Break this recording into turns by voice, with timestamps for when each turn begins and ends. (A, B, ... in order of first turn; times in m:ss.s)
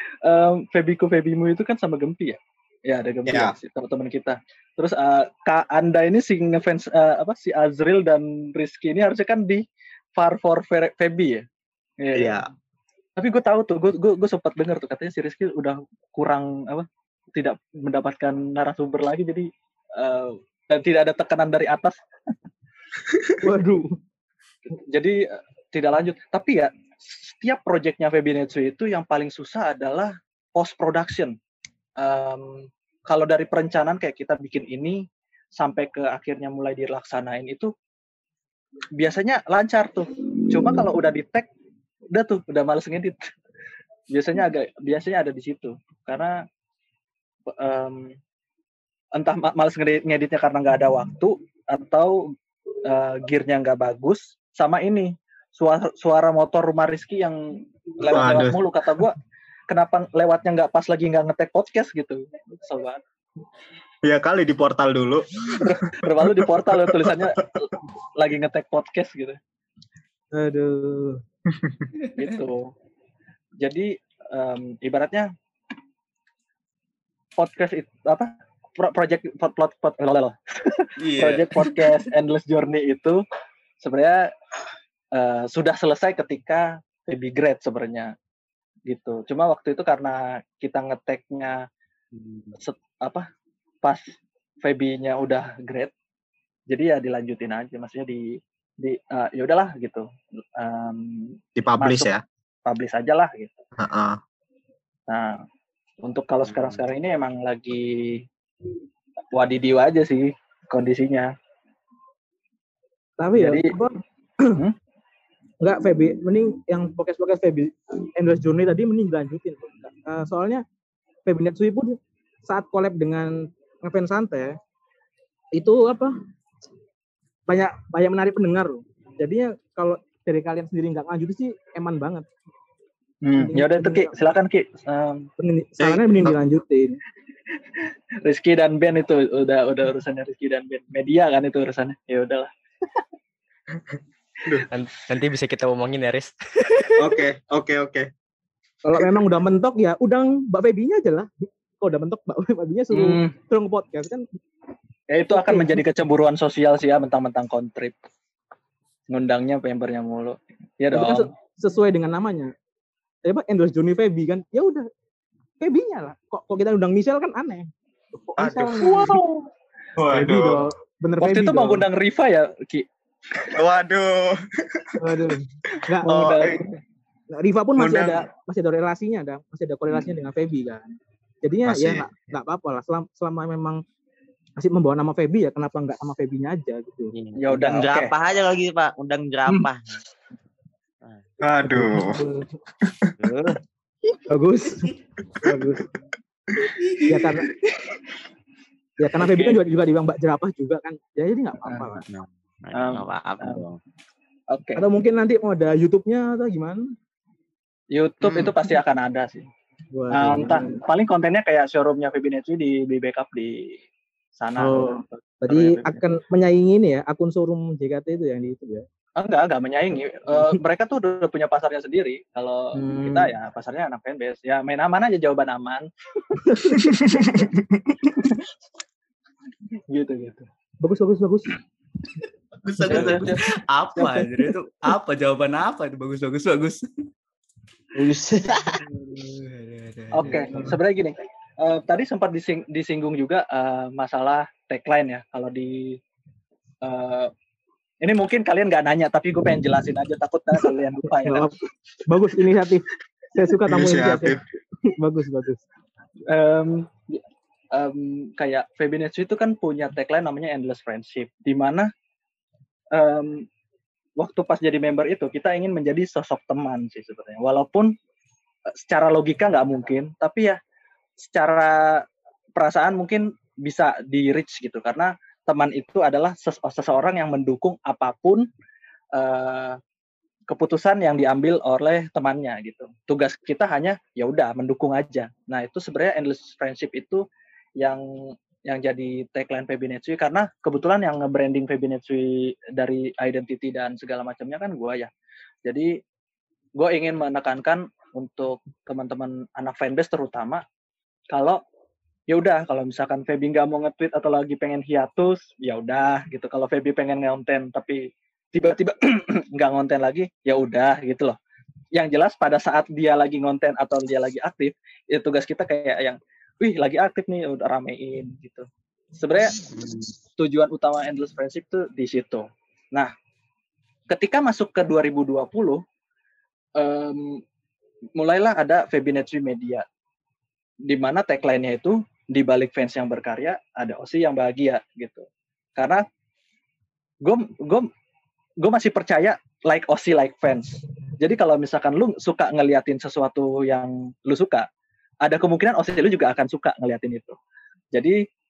0:00.2-0:09.6 A
0:03.3-0:03.5 B
0:10.2-0:11.4 A
0:12.0-0:12.4 A
0:12.1-0:12.5 B
0:13.2-0:22.0 A
0:23.4-0:23.9 C
0:24.7-0:31.4 A
0:32.0-0:35.0 A
0:35.5-0:37.7 A
0:39.0-0:41.5 A
0:42.1-0:43.3 A
0:44.1-0:46.4 A
0:47.5-0:48.1 A
0:49.1-0:52.3 A
0:52.8-0:59.2 A
0:58.0-0:58.6 B
0:59.7-1:03.0 A
1:04.0-1:07.3 B
1:05.5-1:09.4 A
1:10.3-1:11.2 C
1:12.2-1:12.7 A
1:13.6-1:15.3 A
1:17.4-1:23.2 A
1:21.0-1:22.0 D
1:23.8-1:24.3 A
1:25.1-1:28.1 A
1:28.9-1:31.6 A
1:32.1-1:32.5 E
1:32.6-1:33.2 A
1:33.8-1:34.1 A
1:34.6-1:35.9 A
1:36.7-1:42.1 A
1:41.6-1:42.2 B
1:42.6-1:43.6 A
1:43.8-1:44.2 B
1:45.1-1:45.4 A
1:46.0-1:48.2 A
1:46.4-1:46.8 E
1:49.3-1:51.3 A
1:53.2-1:54.6 C
1:53.4-1:53.7 A
1:55.6-2:00.6 C
2:01.3-2:04.6 C
2:05.5-2:06.2 C
2:07.5-2:12.3 C
2:13.2-2:15.3 A
2:13.4-2:14.1 C
2:15.4-2:17.0 C
2:15.8-2:16.3 B
2:18.2-2:22.5 A
2:24.7-2:27.1 F
2:27.0-2:28.1 B
2:28.8-2:34.2 C
2:32.9-2:33.3 A
2:35.1-2:37.9 A
2:35.3-2:35.8 C
2:39.1-2:41.3 A
2:40.9-2:42.5 C
2:43.2-2:44.9 C
2:45.6-2:49.2 C
2:48.4-2:48.9 B
2:48.8-2:49.5 A
2:50.0-2:50.6 B
2:50.1-2:51.9 C
2:51.2-2:52.9 A
2:53.5-2:55.0 B
2:55.0-2:56.5 C
2:56.0-2:56.6 B
2:56.0-2:56.8 A
2:57.3-3:03.8 C
2:57.8-2:58.2 B
3:01.6-3:02.1 B
3:04.6-3:07.1 C
3:07.1-3:10.0 E
3:07.4-3:08.1 A
3:11.4-3:12.2 B
3:11.7-3:12.5 C
3:12.9-3:13.1 B
3:13.2-3:13.6 E
3:14.3-3:15.9 C
3:16.8-3:17.1 D
3:17.1-3:17.5 C
3:19.0-3:22.0 C
3:19.2-3:19.6 A
3:22.1-3:23.8 E
3:22.7-3:23.6 A
3:24.5-3:24.8 A
3:24.8-3:26.9 C
3:27.9-3:29.5 A
3:28.2-3:28.6 E
3:29.9-3:30.8 C
3:30.1-3:33.8 A
3:34.4-3:36.0 A
3:34.6-3:38.8 C
3:39.2-3:46.7 A
3:42.7-3:43.3 C
3:46.4-3:46.9 C
3:46.8-3:48.1 B
3:49.9-3:50.5 A
3:50.8-3:51.5 C
3:52.6-3:56.9 D
3:52.8-3:53.3 E
3:52.8-3:54.5 A
3:57.9-3:58.8 E
3:59.1-4:00.6 D
4:00.1-4:06.0 A
4:00.2-4:00.8 C
4:06.8-4:07.3 A
4:08.0-4:11.5 A
4:11.2-4:11.5 C
4:12.1-4:15.6 C
4:13.7-4:14.4 B
4:16.3-4:21.9 A
4:22.9-4:23.5 A
4:24.2-4:27.9 A
4:28.8-4:30.6 A
4:31.2-4:32.0 A
4:32.6-4:38.5 A
4:39.1-4:39.8 A
4:40.5-4:47.2 A
4:47.8-4:55.1 A
4:55.6-4:56.0 A
4:56.8-5:00.6 A
5:01.3-5:01.6 A
5:02.3-5:11.4 A
5:11.9-5:19.7 A
5:19.6-5:20.1 E
5:20.4-5:23.1 A
5:24.1-5:25.8 A
5:26.8-5:27.4 A
5:28.2-5:29.8 A
5:30.9-5:36.0 A
5:37.2-5:37.9 A
5:38.6-5:44.7 A
5:45.2-5:47.4 A
5:47.9-5:48.2 A